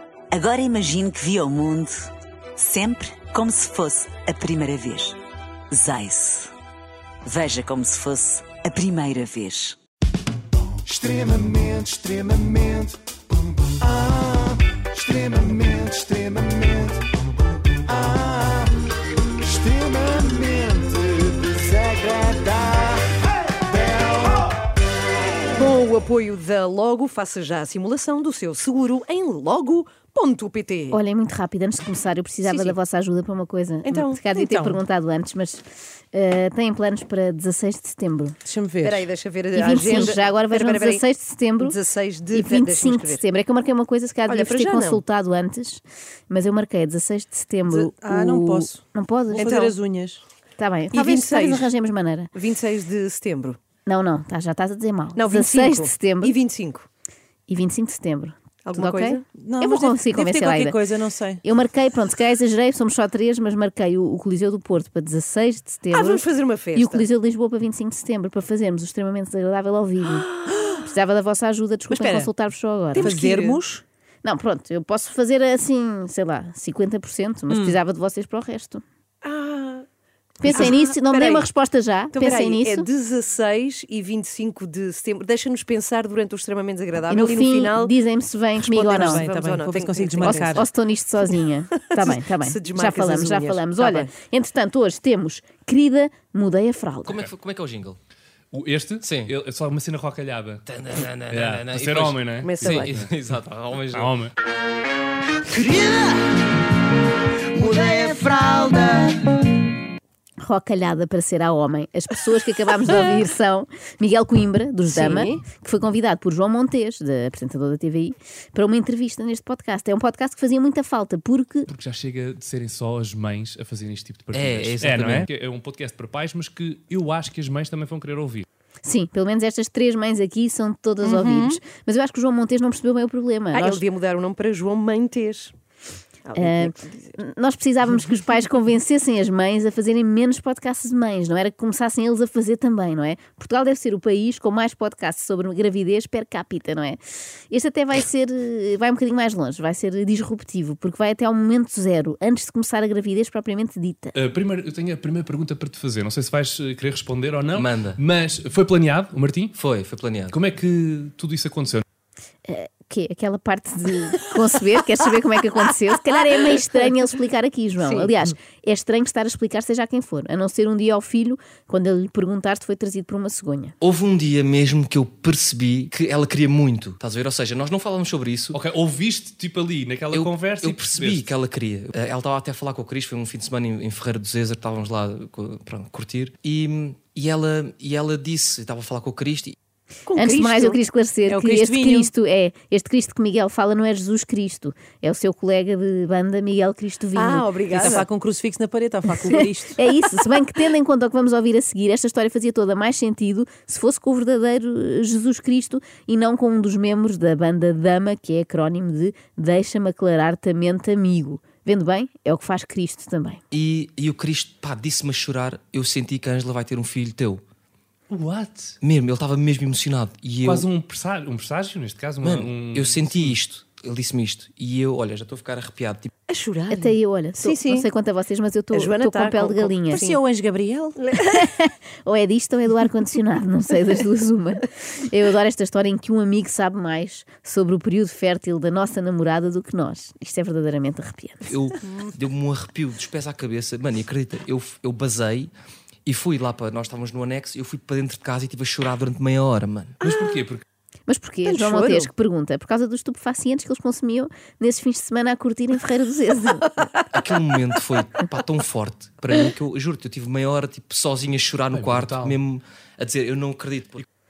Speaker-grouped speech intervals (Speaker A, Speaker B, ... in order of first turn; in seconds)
Speaker A: 0.3-5.2, 5.7-6.5, 7.2-9.8
Speaker B: 10.8-12.9, 13.8-16.9, 17.9-18.7, 19.4-23.0, 23.7-24.2
Speaker C: 25.5-31.0, 32.4-32.8, 33.8-34.4, 38.8-41.0, 41.6-43.2, 44.3-45.0, 49.4-49.8, 50.9-51.7, 52.3-53.6, 55.1-56.9, 58.6-59.2, 65.9-67.1, 72.9-73.6, 79.2-79.8, 80.5-81.5, 82.1-87.9, 88.5-90.6, 91.7-94.1, 102.4-103.0, 105.5-106.2, 107.5-109.2, 114.9-115.4, 131.0-131.6, 133.5-135.5, 136.2-137.2, 167.8-168.1, 190.1-190.8, 197.1-198.1, 226.3-227.9, 228.7-230.2, 231.0-231.4, 251.4-252.1
Speaker D: 30.9-38.4, 39.5-41.8, 42.3-49.5, 50.6-52.3, 53.9-56.3, 57.5-60.8, 61.4-73.1, 74.2-78.8, 80.4-82.9, 87.1-89.3, 90.2-97.2, 110.4-121.7, 128.8-133.8, 136.3-147.0, 147.5-154.1, 162.4-173.7, 190.2-198.0, 199.2-213.4, 226.7-230.2, 231.2-241.5, 251.1-256.8
Speaker E: 38.5-39.0, 47.7-48.8, 49.3-50.2, 59.3-61.4, 72.0-72.2, 73.0-73.8, 88.9-90.7, 191.3-192.1, 197.7-199.7, 229.9-231.0
Speaker F: 97.0-98.0, 99.0-99.3, 100.7-104.1, 124.3-125.3, 157.5-158.0, 159.5-160.4, 173.8-178.6, 180.1-189.6, 213.5-217.4, 218.8-220.7, 222.2-226.1, 241.5-245.5, 246.0-250.0, 257.1-264.0
Speaker G: 98.5-100.6, 101.3-103.1, 103.9-104.3, 121.7-128.4, 154.1-159.5, 160.3-161.8, 178.5-181.4, 218.1-218.7, 220.4-223.3, 250.0-250.6, 261.7-262.4